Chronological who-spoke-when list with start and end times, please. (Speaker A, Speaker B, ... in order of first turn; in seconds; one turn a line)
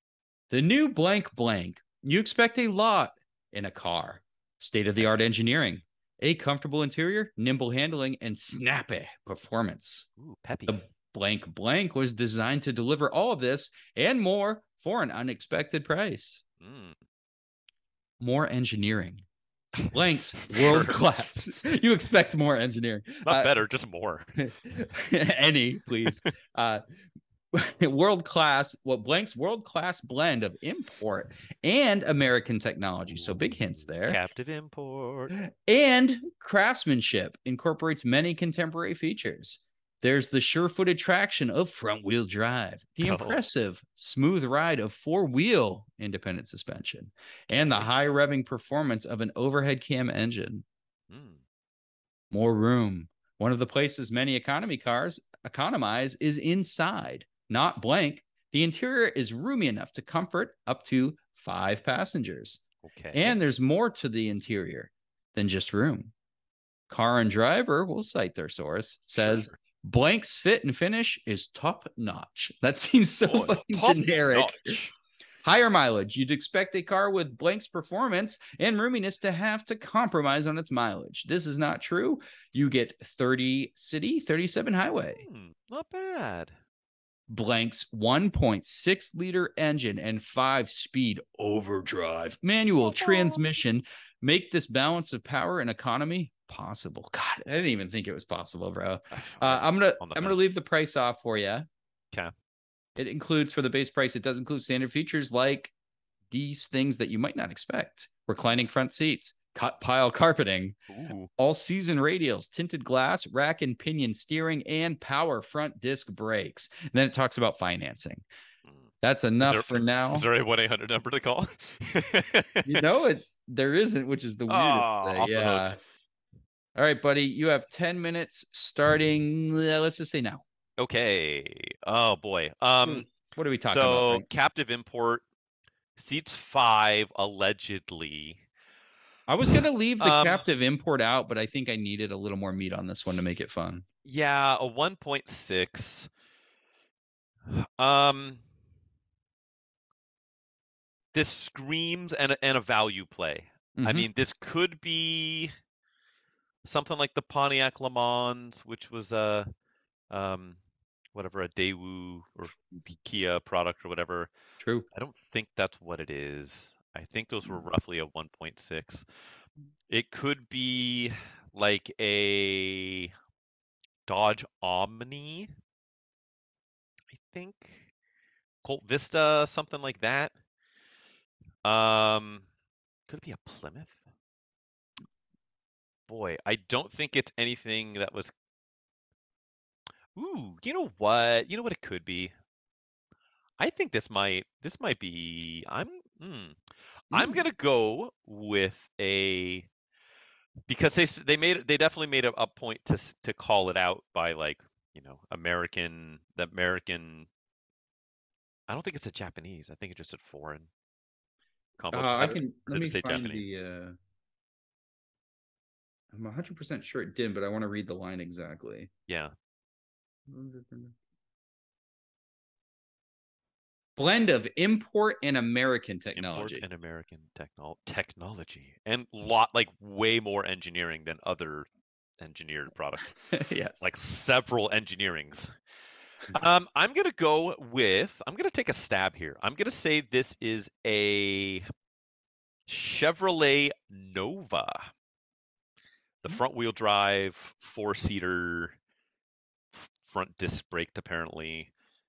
Speaker A: 0.5-10.1
Speaker B: 5.0-5.2
Speaker B: 10.2-10.8
Speaker A: 10.7-16.4
Speaker B: 16.6-17.0
Speaker A: 18.2-19.2
Speaker B: 19.8-21.0
Speaker A: 19.9-23.5
Speaker B: 23.2-24.4
Speaker A: 24.4-26.8
Speaker A: 27.5-34.2
Speaker B: 34.1-35.3
Speaker A: 35.3-50.6
Speaker B: 43.0-43.4
Speaker B: 51.1-51.4
Speaker A: 52.3-66.1
Speaker B: 62.8-63.4
Speaker A: 66.9-74.8
Speaker B: 69.2-69.5
Speaker B: 73.2-74.9
Speaker A: 75.4-85.2
Speaker B: 85.1-86.5
Speaker A: 87.3-101.7
Speaker B: 99.1-100.5
Speaker A: 103.0-105.7
Speaker A: 106.3-110.8
Speaker B: 110.9-111.3
Speaker A: 111.4-118.2
Speaker A: 119.0-120.3
Speaker B: 119.4-123.1
Speaker A: 122.7-125.8
Speaker B: 124.5-125.8
Speaker A: 126.8-130.4
Speaker B: 130.8-133.1
Speaker A: 132.8-134.3
Speaker B: 133.7-135.2
Speaker B: 136.0-138.4
Speaker A: 139.3-143.8
Speaker B: 140.0-140.5
Speaker B: 144.1-146.1
Speaker B: 147.5-148.4
Speaker B: 151.1-155.5
Speaker A: 153.8-154.1
Speaker B: 156.6-159.5
Speaker B: 160.1-160.6
Speaker B: 161.1-164.3
Speaker A: 164.6-164.9
Speaker B: 164.9-169.1
Speaker B: 169.9-173.1
Speaker B: 174.1-175.5
Speaker B: 177.1-177.9
Speaker B: 178.6-180.3
Speaker B: 181.7-182.5
Speaker B: 183.1-184.0
Speaker B: 186.1-188.3
Speaker B: 190.2-192.3
Speaker B: 193.6-196.6
Speaker A: 197.1-197.4
Speaker B: 197.1-199.7
Speaker B: 200.7-207.3
Speaker B: 208.7-210.7
Speaker B: 211.8-213.5
Speaker A: 211.9-214.0
Speaker A: 216.1-218.9
Speaker B: 219.1-219.3
Speaker A: 220.3-220.9
Speaker A: 224.0-226.6
Speaker B: 226.2-231.7
Speaker B: 232.2-233.2
Speaker A: 233.3-233.9
Speaker B: 233.8-235.5
Speaker B: 236.3-241.6
Speaker B: 242.7-244.9
Speaker B: 246.2-248.8
Speaker B: 249.7-251.7